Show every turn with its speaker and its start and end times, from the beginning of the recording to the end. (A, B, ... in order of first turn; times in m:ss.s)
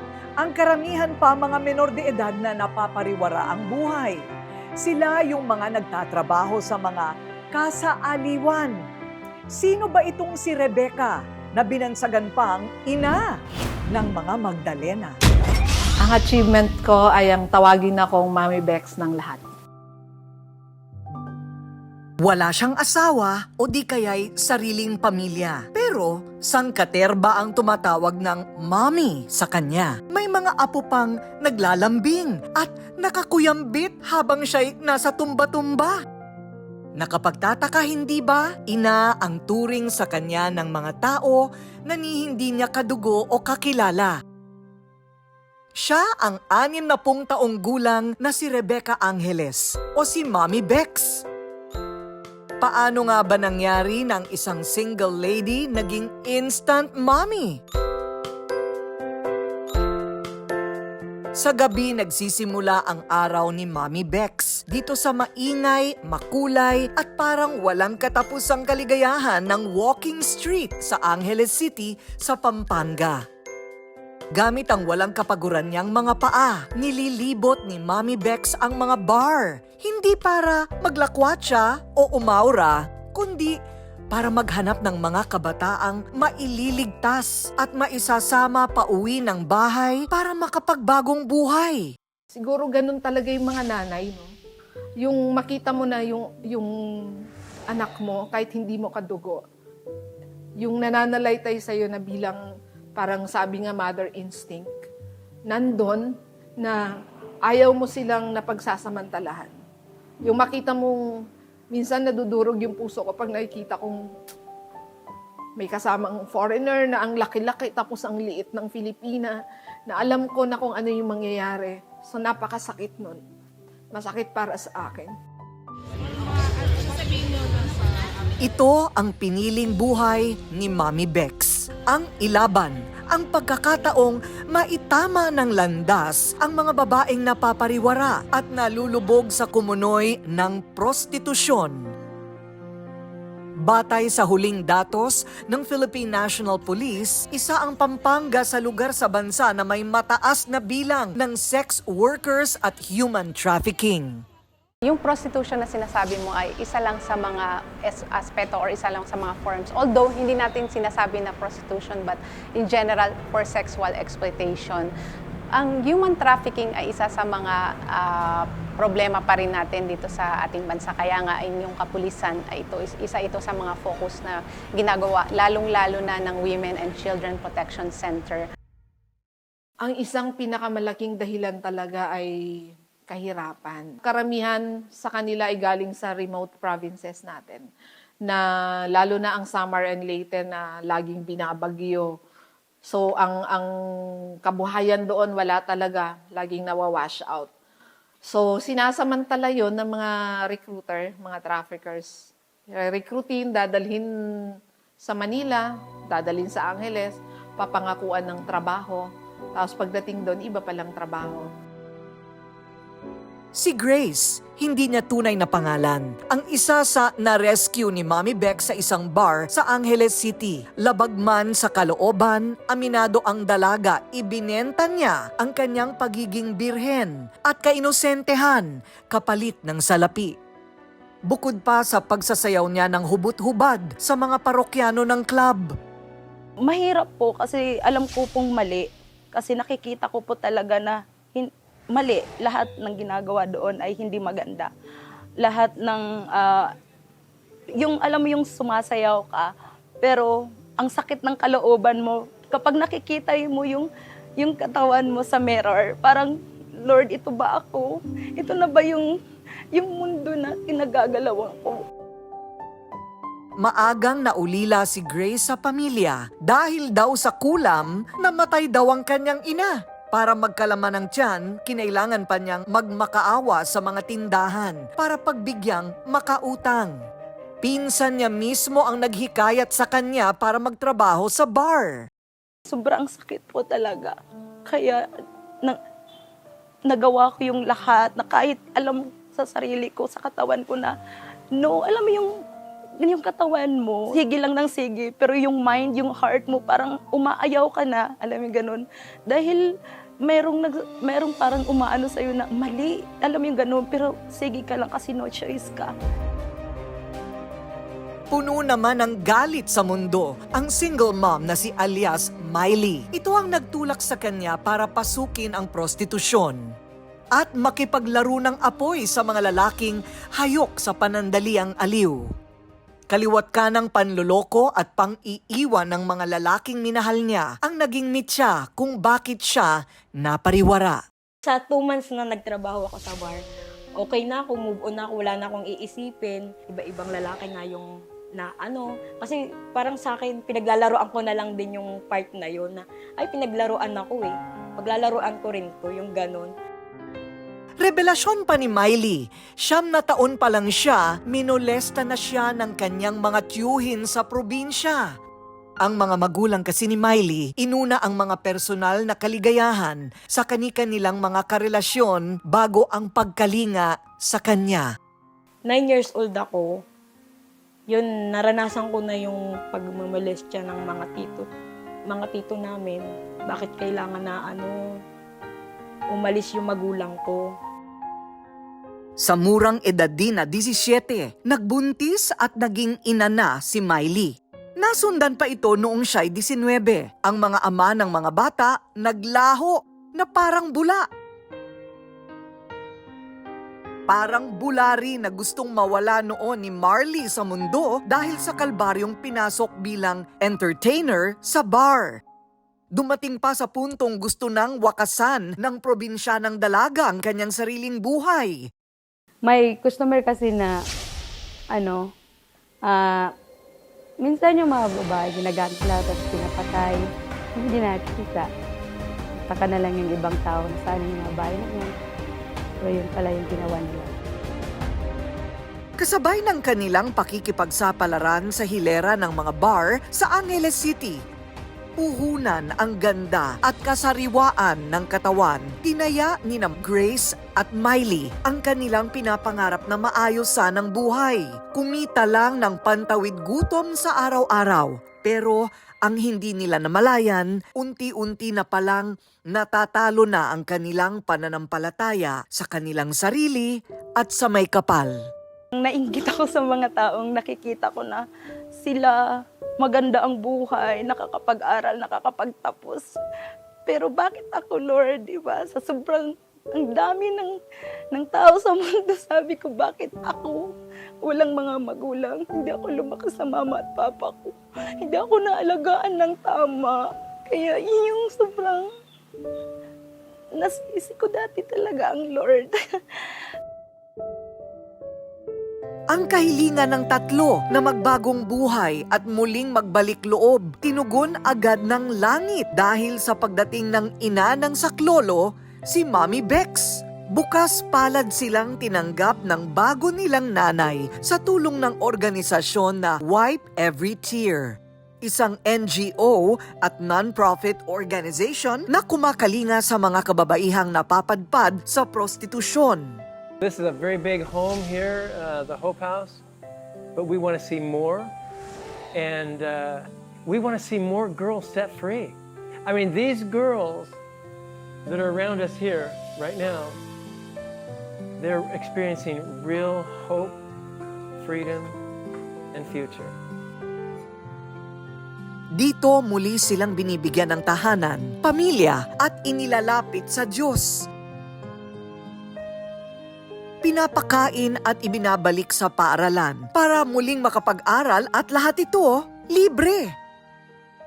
0:00.4-0:04.2 A
0:04.8-0:08.8 A
0:09.6-0:13.2 A
0:13.9-0:15.2 A
0:16.0-0:19.4 B
0:22.2-0:36.0 A
0:37.0-0:44.2 A
0:45.8-0:51.2 A
0:52.6-0:57.6 A
1:01.4-1:13.2 A
1:14.4-1:23.6 A
1:24.1-1:31.9 A
1:32.4-1:34.3 B
1:35.0-1:36.7 B
1:37.7-1:39.4 B
1:40.6-1:42.4 B
1:43.0-1:44.7 B
1:45.5-1:46.1 B
1:47.5-1:49.5 B
1:50.3-1:51.0 B
1:51.7-1:54.0 B
1:55.6-1:59.4 B
1:59.9-2:03.2 B
2:03.9-2:05.1 B
2:08.4-2:21.9 A
2:23.6-2:34.2 A
2:34.9-2:44.9 C
2:45.5-2:58.4 C
2:59.9-3:02.3 B
3:03.1-3:07.6 B
3:09.0-3:12.1 B
3:12.8-3:13.7 B
3:14.4-3:17.5 B
3:18.2-3:22.1 B
3:22.7-3:24.1 B
3:25.0-3:29.0 B
3:29.6-3:31.4 B
3:33.5-3:50.3 A
3:51.3-3:55.7 A
3:56.7-4:04.7 D
4:05.4-4:06.7 D
4:07.8-4:09.5 D
4:10.0-4:13.9 D
4:14.4-4:19.1 D
4:19.7-4:21.8 D
4:23.6-4:37.0 A
4:37.6-4:42.0 A
4:42.7-4:44.2 D
4:44.7-4:45.0 D
4:46.9-4:50.9 D
4:51.6-4:52.3 D
4:53.0-4:59.6 D
5:00.3-5:05.9 D
5:08.3-5:16.6 A
5:17.4-5:22.2 A
5:23.1-5:31.0 A
5:31.5-5:33.4 E
5:34.0-5:46.5 E
5:47.8-5:55.0 A
5:55.8-6:04.9 A
6:05.7-6:06.8 E
6:07.9-6:11.5 E
6:12.1-6:14.8 E
6:16.1-6:17.5 E
6:19.2-6:31.1 A
6:34.1-6:42.2 A
6:43.0-6:48.6 A
6:49.4-6:50.8 F
6:51.7-6:52.1 F
6:52.8-6:53.3 F
6:54.2-6:58.5 F
6:59.4-7:01.9 F
7:02.8-7:04.1 F
7:06.0-7:11.2 A
7:12.0-7:35.2 A
7:35.7-7:38.2 D
7:38.8-7:39.2 D
7:39.8-7:43.1 D
7:43.9-7:47.6 D
7:48.1-7:50.6 D
7:51.2-7:57.0 D
7:57.5-7:58.9 D
8:00.6-8:02.8 D
8:06.1-8:33.2 A
8:33.6-8:36.4 G
8:37.2-8:38.3 G
8:39.1-8:44.2 G
8:45.1-8:47.0 G
8:48.4-8:50.6 G
8:51.4-8:52.0 G
8:52.7-8:53.4 G
8:55.8-9:01.1 A
9:03.8-9:10.1 A